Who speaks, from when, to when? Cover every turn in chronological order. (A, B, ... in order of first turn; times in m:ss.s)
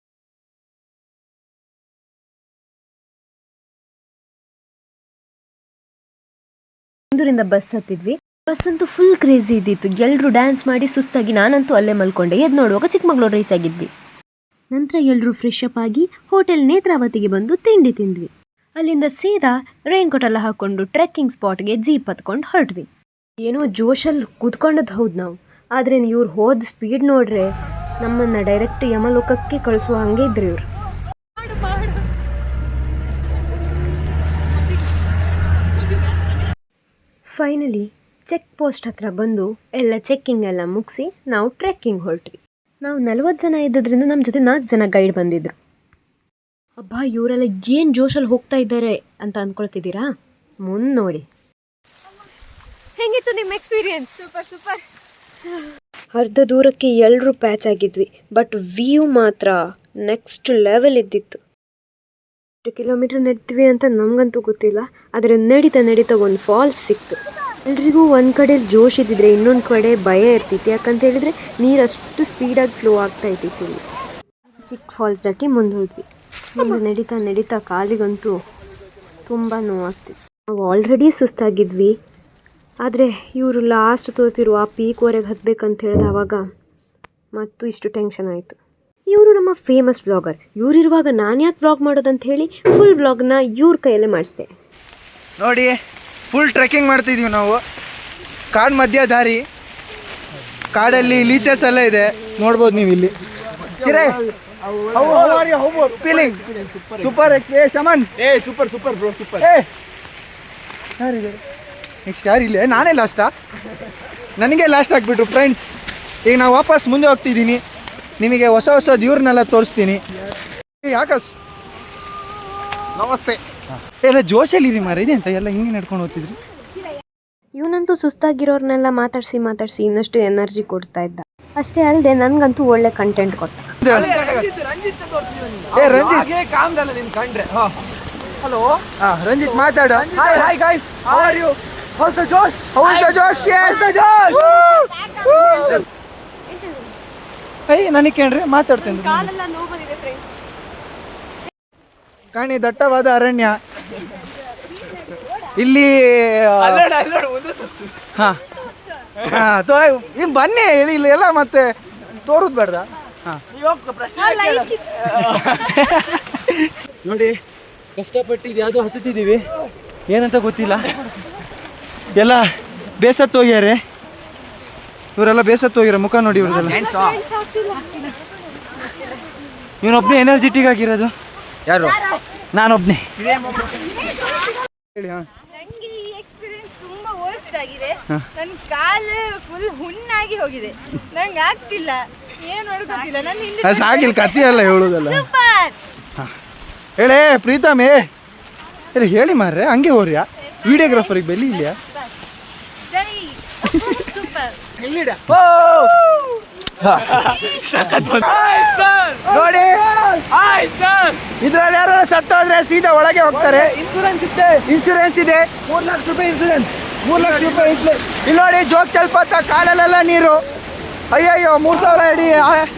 0:07.1-0:13.9 A
0:14.7-0:22.9 A
0:23.4-0:27.5 A
0:28.0-0:30.6 A
0:31.4-0:32.0 B
0:37.3-0:45.6 A
0:46.8-0:50.0 A
0:50.7-0:51.2 A
0:53.0-0:54.8 B
0:53.2-0:54.0 A
0:56.1-1:01.4 A
1:02.6-1:13.8 A
1:14.7-1:18.4 A
1:19.2-1:21.9 A
1:22.8-1:26.4 A
1:27.3-1:28.6 A
1:29.1-1:34.5 A
1:35.4-1:35.8 C
1:36.3-1:37.6 C
1:38.5-1:39.4 C
1:40.7-1:43.1 C
1:43.7-1:44.1 D
1:43.8-1:44.2 C
1:44.6-1:47.1 D
1:44.9-1:46.4 C
1:47.0-1:48.1 C
1:48.2-1:49.4 D
1:49.4-1:49.7 C
1:51.0-1:51.4 C
1:52.1-1:53.3 C
1:54.4-1:57.6 C
1:58.2-2:00.0 C
2:00.8-2:01.3 C
2:03.1-2:06.4 C
2:07.6-2:13.8 A
2:13.8-2:14.4 C
2:13.8-2:17.8 D
2:15.7-2:16.3 C
2:18.4-2:18.8 D
2:19.0-2:20.5 C
2:19.9-2:24.7 D
2:22.7-2:25.8 C
2:25.2-2:25.5 B
2:27.7-2:29.3 C
2:28.9-2:30.3 B
2:32.3-2:33.6 C
2:35.6-2:36.8 C
2:36.6-2:38.0 D
2:39.2-2:41.7 C
2:42.2-2:43.4 C
2:43.5-2:44.8 D
2:44.2-2:45.0 B
2:45.2-2:47.3 C
2:48.0-2:49.1 D
2:48.1-2:49.4 C
2:50.1-2:50.9 C
2:52.1-2:52.5 C
2:53.0-2:53.8 C
2:55.2-2:56.8 C
2:56.8-2:57.2 D
2:56.9-2:58.1 B
2:59.8-3:01.1 C
3:02.5-3:03.1 C
3:04.9-3:05.2 C
3:05.5-3:15.8 B
3:13.6-3:15.3 C
3:17.0-3:18.1 C
3:18.9-3:21.8 C
3:20.7-3:20.9 B
3:22.9-3:24.6 B
3:24.8-3:25.8 C
3:24.8-3:26.2 D
3:26.9-3:31.2 D
3:27.8-3:28.2 C
3:29.2-3:29.8 C
3:31.3-3:33.8 C
3:33.3-3:34.6 D
3:34.6-3:35.6 C
3:35.6-3:37.8 D
3:37.0-3:40.4 C
3:41.1-3:42.7 C